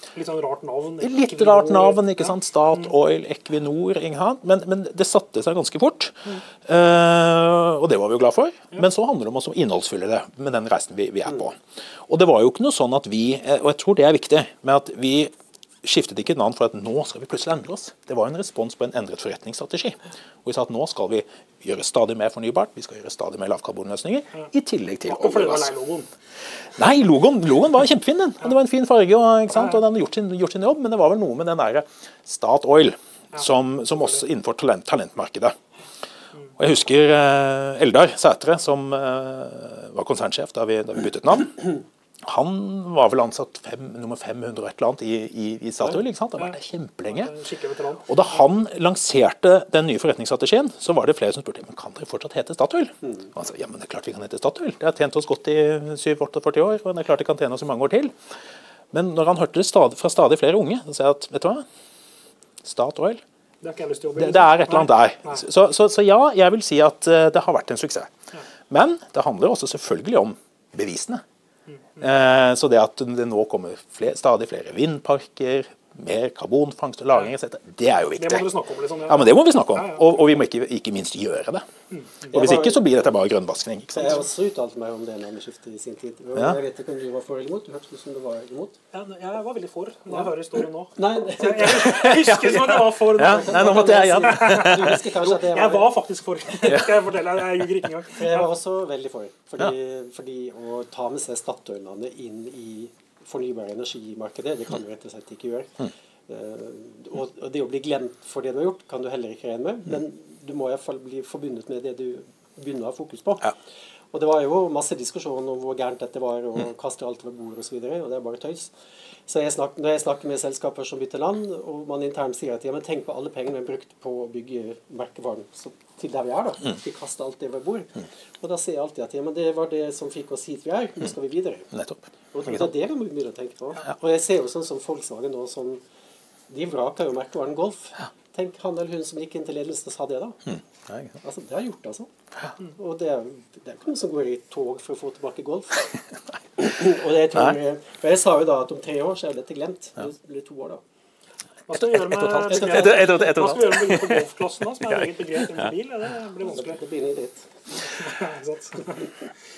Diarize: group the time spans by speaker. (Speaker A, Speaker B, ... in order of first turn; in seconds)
Speaker A: 0.1-2.3, 25.1-26.1, 47.1-48.2, 63.6-65.4, 78.2-80.1, 81.9-82.3, 88.9-98.5, 151.7-156.8, 157.8-159.3
Speaker B: 1.0-15.3, 15.8-25.7, 26.8-35.6, 36.6-47.3, 48.1-58.1, 58.9-61.6, 62.6-63.2, 64.2-68.1, 68.7-71.2, 72.0-78.5, 79.1-81.6, 82.3-84.2, 91.6-95.0, 96.7-97.0, 131.7-132.6, 140.5-141.2, 151.7-154.3, 154.8-155.7
Speaker C: 82.3-82.8, 84.0-88.8, 91.0-91.9, 93.2-95.9, 98.1-113.5, 114.1-118.7, 119.3-131.7, 132.3-135.8, 136.5-140.4, 141.2-146.0, 146.6-150.8, 152.5-153.2, 156.5-157.5